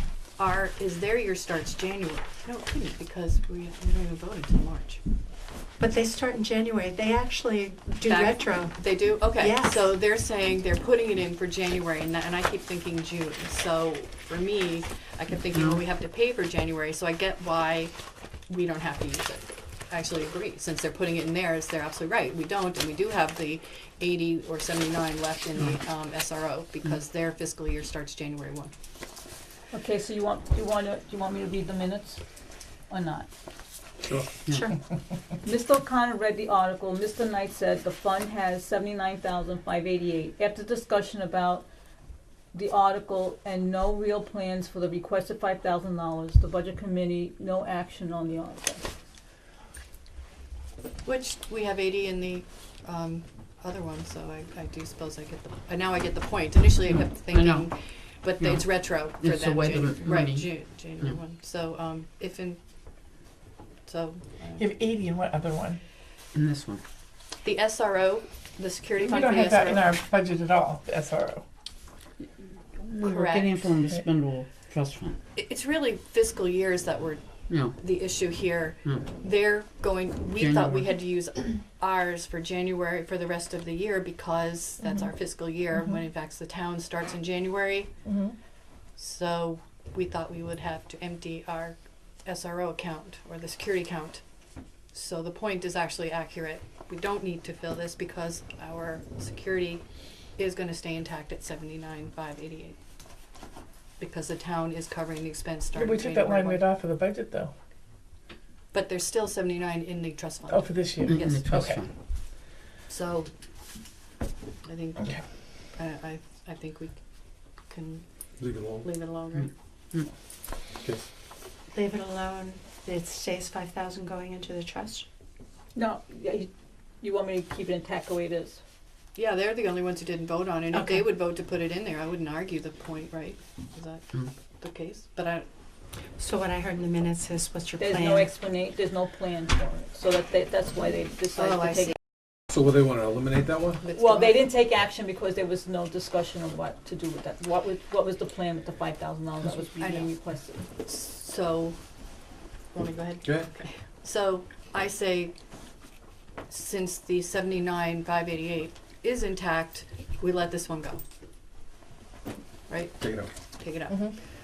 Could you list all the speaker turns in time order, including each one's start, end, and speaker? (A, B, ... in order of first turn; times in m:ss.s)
0:00.3-0:05.0 A
0:05.8-0:09.9 B
0:08.0-0:17.9 A
0:15.5-0:15.8 C
0:18.5-0:28.7 A
0:29.7-0:32.2 D
0:32.9-0:33.3 D
0:35.4-0:41.6 D
0:42.5-0:48.8 D
0:51.0-1:02.6 A
0:56.9-0:57.7 C
0:58.4-1:01.2 C
1:03.9-1:04.6 A
1:04.6-1:05.8 E
1:06.3-1:06.8 C
1:07.4-1:09.9 A
1:09.0-1:11.4 E
1:12.8-1:15.2 C
1:13.0-1:13.7 A
1:15.4-1:27.9 A
1:17.5-1:17.8 C
1:18.8-1:19.1 C
1:20.4-1:21.0 C
1:28.0-1:28.4 E
1:29.0-1:34.2 A
1:34.9-1:42.8 A
1:44.0-1:46.6 A
1:45.8-1:47.5 E
1:48.7-1:51.7 A
1:50.5-1:51.8 E
1:51.0-1:51.9 C
1:52.9-1:53.3 A
1:54.6-1:59.5 A
1:58.4-1:58.9 F
1:59.4-2:00.1 C
2:01.7-2:05.1 B
2:05.8-2:08.6 D
2:09.2-2:15.5 A
2:10.7-2:11.1 B
2:16.2-2:18.3 B
2:17.8-2:22.0 D
2:21.4-2:22.0 A
2:22.5-2:23.8 F
2:23.8-2:24.4 A
2:23.9-2:30.7 D
2:29.4-2:31.8 A
2:32.7-2:35.3 A
2:33.2-2:33.5 F
2:36.5-2:41.0 A
2:42.7-2:44.2 A
2:43.0-2:43.3 F
2:43.9-2:44.1 E